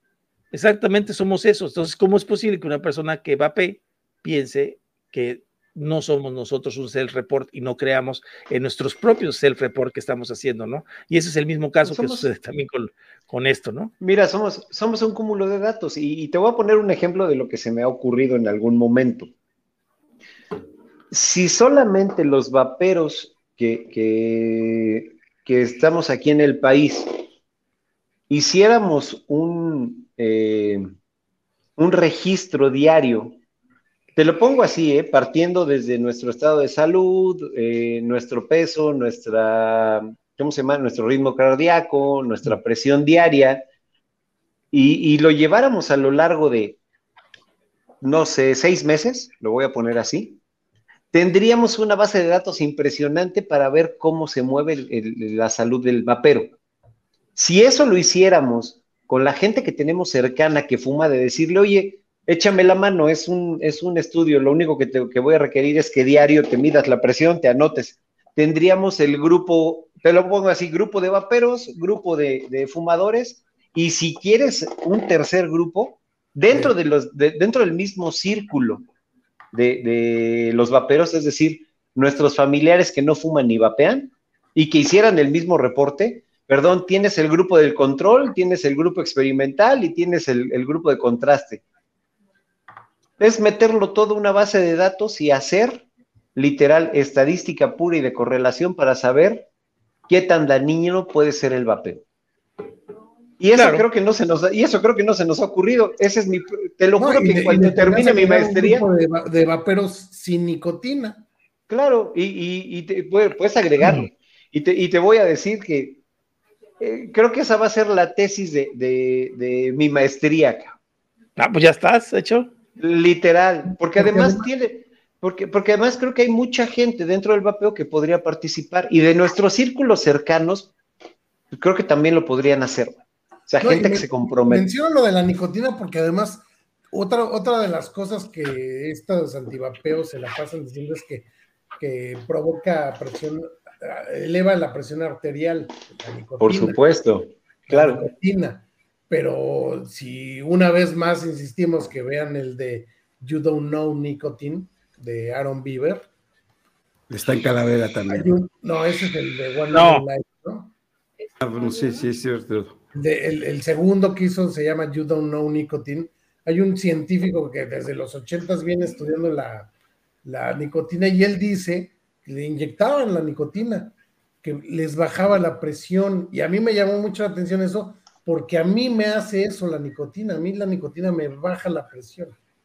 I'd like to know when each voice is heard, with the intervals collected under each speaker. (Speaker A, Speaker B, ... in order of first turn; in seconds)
Speaker A: 0.5-13.9, 103.5-103.8, 113.8-114.1, 121.4-122.5, 159.7-160.0
Speaker B: 11.8-12.3, 14.0-19.3, 21.1-27.1, 28.3-30.9, 31.8-33.4, 34.1-43.6, 44.7-46.8, 48.0-50.4, 51.1-56.5, 57.4-78.8, 79.5-91.6, 93.2-99.5, 100.1-102.0, 103.4-108.9, 111.7-116.0, 116.8-120.7, 122.8-130.7, 131.5-134.7, 146.4-148.0
Speaker C: 107.0-111.2, 123.9-124.5, 133.6-146.8, 147.7-156.1, 158.1-160.7, 162.9-169.7, 170.2-182.3
Speaker D: 157.1-158.3, 161.4-162.8